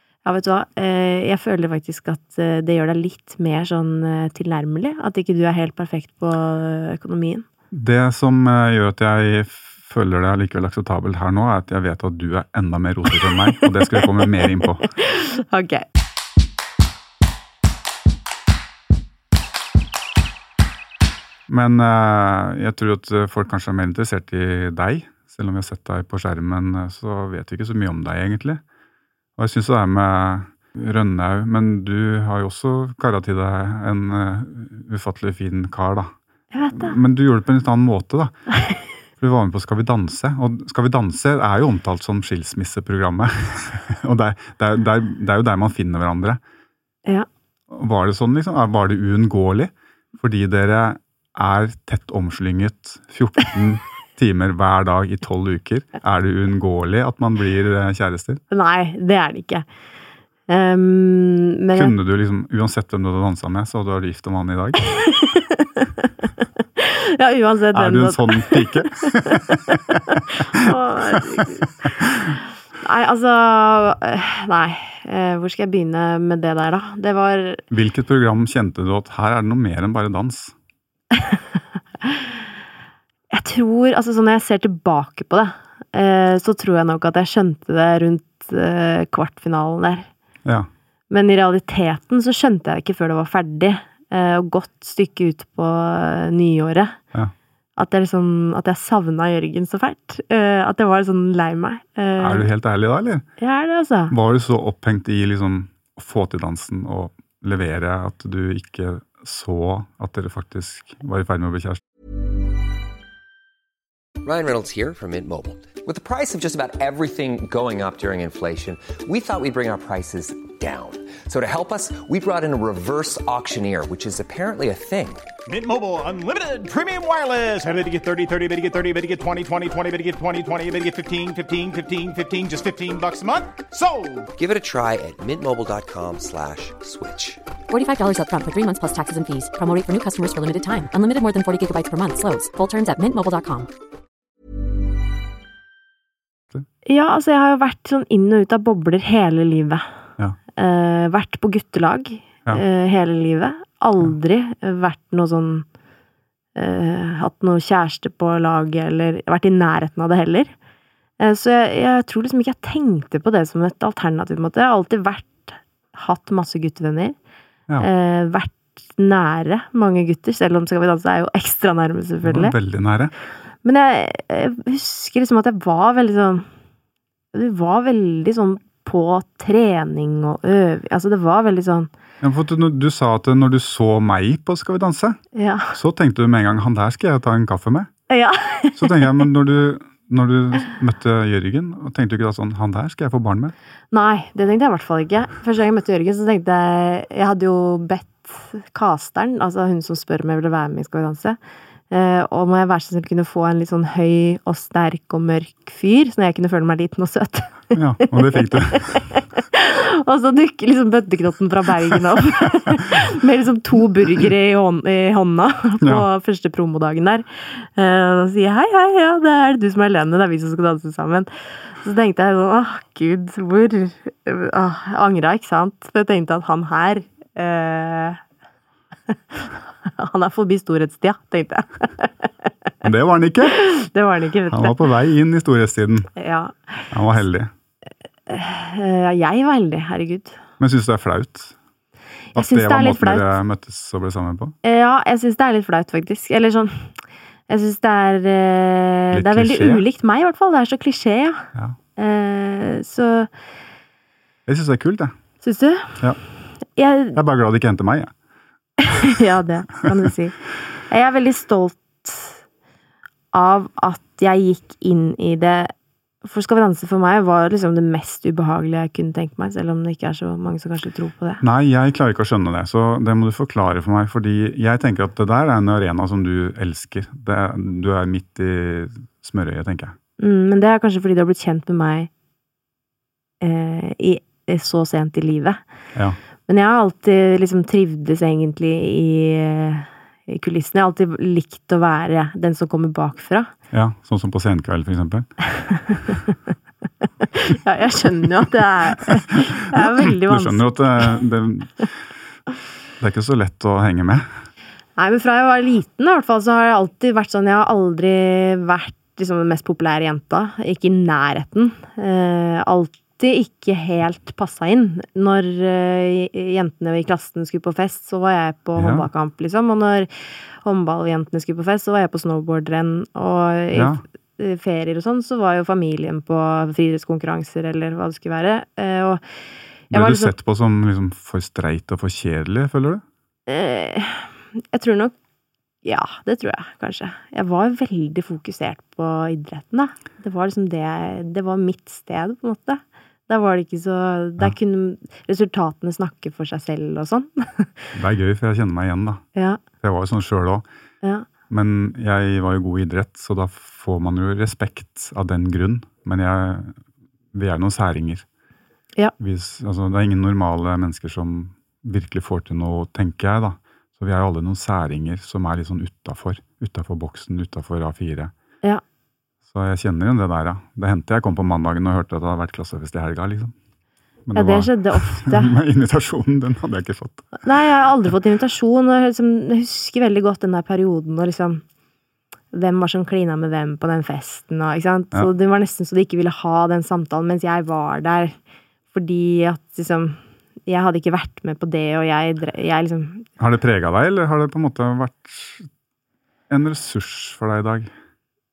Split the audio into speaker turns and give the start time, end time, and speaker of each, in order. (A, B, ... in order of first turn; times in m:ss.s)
0:00.2-0:07.4 A
0:07.7-0:14.9 B
0:13.9-0:15.8 A
0:21.5-0:28.6 B
0:29.4-0:36.1 B
0:36.5-0:37.0 A
0:36.7-0:38.4 B
0:39.2-0:46.4 B
0:47.7-0:58.4 B
0:58.5-0:59.7 A
1:00.5-1:01.9 A
1:01.7-1:04.8 B
1:04.9-1:06.1 A
1:06.8-1:12.1 A
1:07.7-1:10.7 B
1:11.4-1:11.9 B
1:12.8-1:17.6 A
1:17.7-1:20.5 B
1:21.1-1:21.4 A
1:22.0-1:22.3 A
1:23.3-1:30.1 A
1:31.1-1:37.0 A
1:37.8-1:42.5 A
1:42.2-1:43.2 B
1:43.4-1:44.1 A
1:44.1-1:51.8 B
1:54.2-2:05.3 C
2:05.5-2:14.3 D
2:14.4-2:17.4 C
2:17.7-2:23.7 E
2:26.8-2:29.8 A
2:30.6-2:35.6 A
2:36.5-2:40.5 A
2:41.2-2:47.2 A
2:47.8-2:52.5 A
2:52.2-2:53.1 B
2:53.6-2:56.5 A
2:57.3-3:01.9 A
3:02.2-3:05.2 B
3:05.3-3:05.7 A
3:05.7-3:07.9 B
3:08.1-3:09.2 A
3:08.8-3:13.5 B
3:13.9-3:21.4 A
3:21.9-3:48.2 A
3:27.7-3:29.0 B
3:35.8-3:36.0 B
3:49.8-3:52.3 A
3:52.8-3:53.6 B
3:53.4-3:54.9 A
3:54.5-3:56.1 B
3:56.2-3:56.9 A
3:56.9-3:57.5 B
3:58.3-4:00.4 A
4:00.6-4:01.6 B
4:02.3-4:04.5 B
4:02.3-4:03.3 A
4:04.6-4:07.0 A
4:07.5-4:13.3 A
4:09.1-4:09.8 B
4:14.5-4:15.1 B
4:15.4-4:16.0 A
4:16.7-4:17.2 A
4:17.1-4:18.1 B
4:18.8-4:22.4 A
4:23.3-4:25.7 A
4:26.2-4:31.4 A
4:31.4-4:39.9 B
4:40.2-4:42.1 A
4:43.4-4:45.6 A
4:46.5-4:53.5 A
4:53.7-4:55.4 B
4:57.3-5:01.2 A
4:59.8-5:02.0 B
5:03.0-5:04.2 B
5:05.0-5:20.1 A
5:18.8-5:19.1 B
5:20.6-5:29.2 A
5:23.7-5:24.0 B
5:29.9-5:30.3 A
5:29.9-5:33.0 B
5:33.5-5:35.1 A
5:35.8-5:47.9 A
5:47.9-5:49.2 B
5:49.4-5:49.6 A
5:49.8-5:50.6 B
5:51.5-5:56.8 B
5:57.3-5:58.2 B
5:59.2-6:08.3 B
6:09.5-6:13.5 B
6:14.3-6:17.4 B
6:14.3-6:15.5 A
6:17.4-6:21.6 A
6:22.5-6:28.4 A
6:28.9-6:33.3 A
6:33.4-6:35.7 B
6:36.5-6:37.9 B